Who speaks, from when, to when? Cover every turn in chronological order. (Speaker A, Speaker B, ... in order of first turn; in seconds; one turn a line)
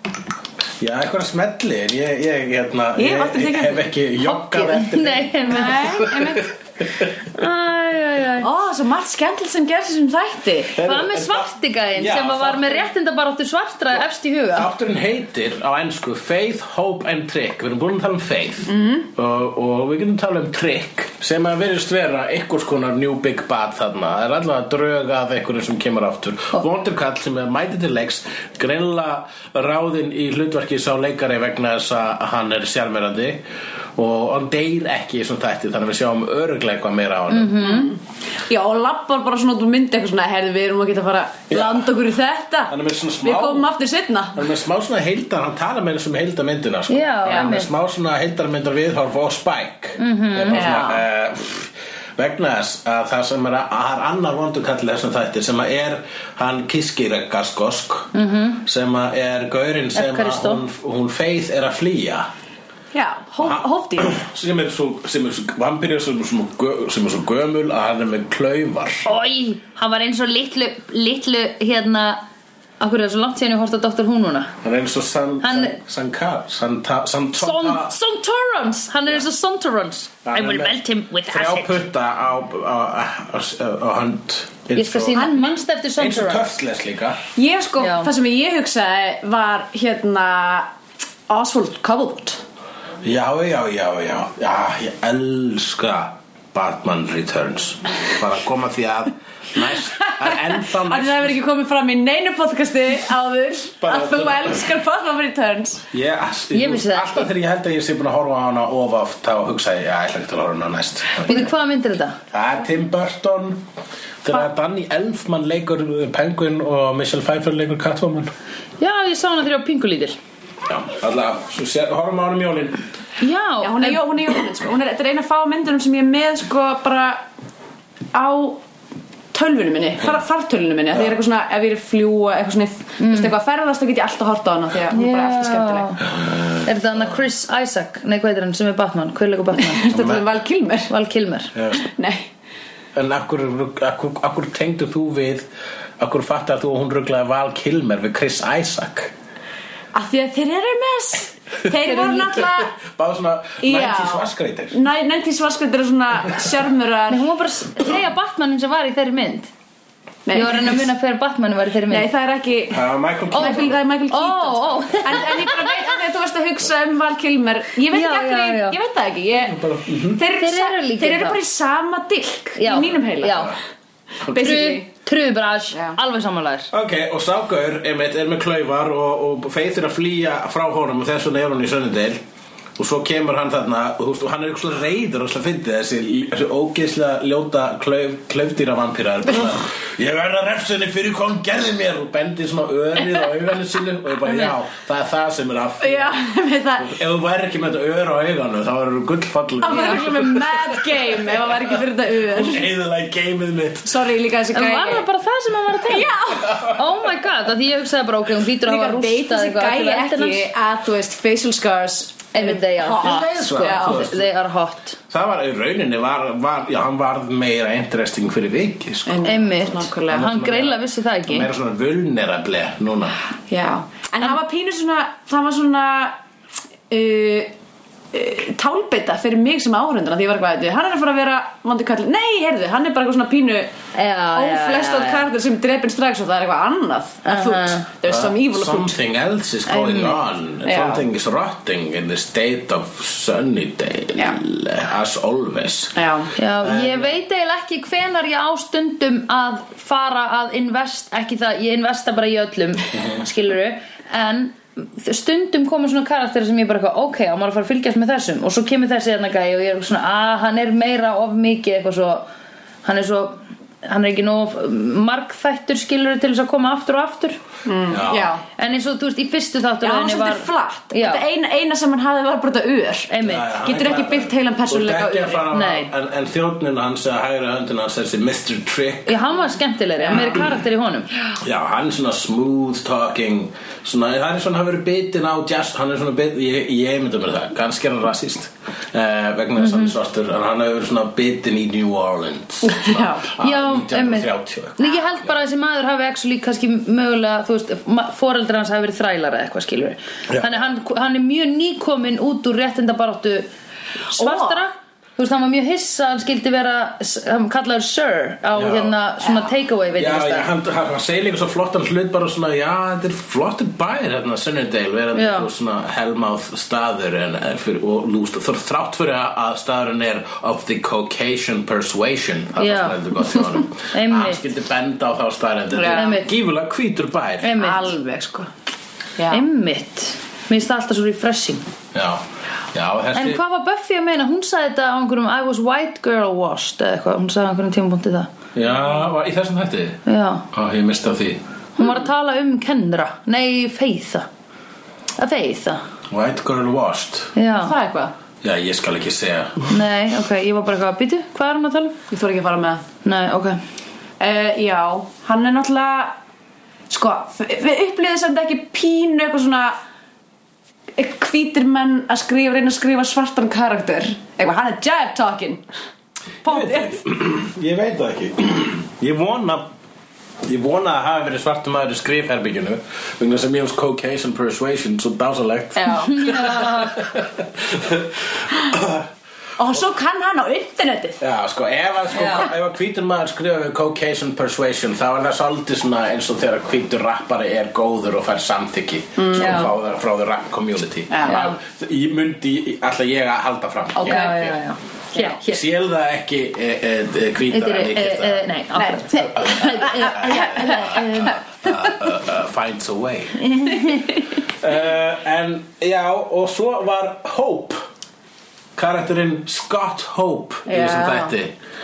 Speaker A: 0.8-6.4
Speaker B: 3.0-3.9
Speaker C: 4.2-6.4
Speaker B: 5.5-6.5
Speaker C: 7.3-8.5
Speaker B: 8.4-10.8
Speaker A: 10.7-12.9
Speaker C: 10.8-14.7
Speaker A: 14.5-33.4
Speaker B: 18.7-19.1
Speaker A: 34.0-37.6
Speaker C: 37.3-37.9
Speaker B: 37.6-44.4
Speaker A: 41.5-41.9
Speaker A: 42.7-43.7
Speaker A: 44.3-58.1
Speaker C: 46.9-47.7
Speaker B: 47.2-47.5
Speaker C: 50.0-50.7
Speaker B: 50.5-51.0
Speaker C: 58.1-58.6
Speaker A: 58.6-62.3
Speaker C: 59.9-60.6
Speaker B: 62.9-64.2
Speaker A: 63.4-69.1
Speaker C: 69.0-72.2
Speaker C: 72.8-74.5
Speaker A: 74.6-77.9
Speaker C: 75.4-75.8
Speaker C: 77.4-81.8
Speaker A: 80.2-85.3
Speaker C: 84.7-86.5
Speaker B: 85.1-85.5
Speaker A: 86.0-87.2
Speaker B: 87.3-90.7
Speaker C: 87.8-88.1
Speaker B: 91.3-92.4
Speaker A: 93.0-101.4
Speaker B: 100.0-105.9
Speaker A: 103.8-104.6
Speaker A: 105.9-111.5
Speaker C: 106.5-107.3
Speaker C: 111.2-112.2
Speaker A: 112.3-113.6
Speaker A: 114.2-118.3
Speaker C: 118.8-120.2
Speaker A: 120.7-122.8
Speaker C: 123.2-124.0
Speaker B: 123.6-127.2
Speaker B: 128.1-128.6
Speaker B: 129.3-135.9
Speaker C: 133.0-133.3
Speaker C: 134.9-136.1
Speaker A: 136.1-136.7
Speaker C: 136.6-140.0
Speaker B: 139.6-140.9
Speaker A: 139.9-140.2
Speaker C: 140.9-141.5
Speaker A: 141.5-141.8
Speaker B: 141.7-142.3
Speaker A: 142.9-145.5
Speaker A: 146.0-149.1
Speaker B: 149.9-152.8
Speaker C: 151.8-152.4
Speaker A: 152.4-154.8
Speaker B: 153.6-157.2
Speaker C: 157.1-159.5
Speaker B: 160.3-160.8
Speaker C: 160.3-162.1
Speaker B: 161.9-173.6
Speaker A: 162.7-163.7
Speaker C: 163.3-165.9
Speaker C: 167.9-168.8
Speaker A: 169.5-170.2
Speaker C: 170.3-171.4
Speaker C: 172.6-173.5
Speaker B: 174.2-174.8
Speaker C: 174.3-176.7
Speaker A: 176.7-182.2
Speaker A: 182.8-196.2
Speaker B: 195.8-197.0
Speaker A: 196.8-201.8
Speaker B: 199.6-202.7
Speaker C: 199.7-200.0
Speaker A: 202.3-203.9
Speaker B: 203.8-205.1
Speaker C: 204.5-210.5
Speaker B: 205.8-206.6
Speaker A: 206.5-206.8
Speaker B: 208.6-214.1
Speaker C: 212.3-215.0
Speaker A: 213.0-214.3
Speaker A: 215.1-219.3
Speaker B: 219.1-220.3
Speaker C: 219.2-221.5
Speaker A: 220.1-223.2
Speaker B: 223.5-226.2
Speaker B: 226.9-227.5
Speaker B: 228.1-233.7
Speaker C: 233.9-235.2
Speaker B: 234.3-239.0
Speaker C: 237.2-237.9
Speaker A: 238.1-246.0
Speaker B: 239.7-240.0
Speaker C: 239.8-240.1
Speaker B: 240.6-241.0
Speaker B: 245.9-246.3
Speaker C: 246.4-262.3
Speaker A: 246.6-247.2
Speaker A: 252.9-253.2
Speaker C: 262.8-267.4
Speaker B: 267.6-268.4
Speaker A: 267.9-268.3
Speaker C: 268.6-271.2
Speaker B: 269.8-273.1
Speaker C: 273.1-273.5
Speaker A: 273.2-279.2
Speaker B: 273.6-275.5
Speaker C: 275.5-275.9
Speaker C: 279.1-281.1
Speaker B: 280.0-280.4
Speaker A: 281.4-295.2
Speaker C: 289.6-289.9
Speaker B: 292.6-293.3
Speaker C: 293.4-303.5
Speaker A: 300.3-300.6
Speaker B: 304.1-304.6
Speaker C: 304.1-310.5
Speaker A: 308.6-308.9
Speaker B: 309.2-309.5
Speaker A: 310.0-327.6
Speaker C: 315.1-315.5
Speaker C: 322.6-324.4
Speaker B: 325.7-326.1
Speaker C: 325.9-326.3
Speaker C: 327.4-328.0
Speaker B: 327.6-328.5
Speaker B: 329.2-329.4
Speaker C: 329.3-331.6
Speaker A: 331.9-333.4
Speaker C: 333.1-338.3
Speaker A: 338.5-341.4
Speaker C: 340.1-340.4
Speaker C: 341.8-344.3
Speaker C: 345.2-345.8
Speaker A: 346.1-347.3
Speaker C: 347.4-347.7
Speaker B: 347.6-348.1
Speaker A: 348.4-349.8
Speaker C: 349.7-352.0
Speaker B: 352.1-352.8
Speaker C: 353.0-353.6
Speaker B: 354.2-356.1
Speaker B: 356.9-359.8
Speaker B: 360.9-365.6
Speaker B: 366.4-367.0
Speaker A: 366.4-369.7
Speaker A: 370.4-379.1
Speaker B: 375.8-376.5
Speaker C: 376.2-376.9
Speaker B: 379.6-381.2
Speaker A: 381.2-394.5
Speaker C: 382.1-382.5
Speaker B: 389.2-389.7
Speaker C: 389.4-389.7
Speaker B: 391.1-391.5
Speaker C: 391.2-391.5
Speaker B: 394.0-394.4
Speaker C: 394.0-395.6
Speaker A: 395.4-398.4
Speaker C: 397.5-401.3
Speaker B: 398.7-401.4
Speaker A: 399.4-403.6
Speaker C: 403.5-404.2
Speaker A: 404.5-407.9
Speaker A: 408.8-411.5
Speaker B: 410.6-411.3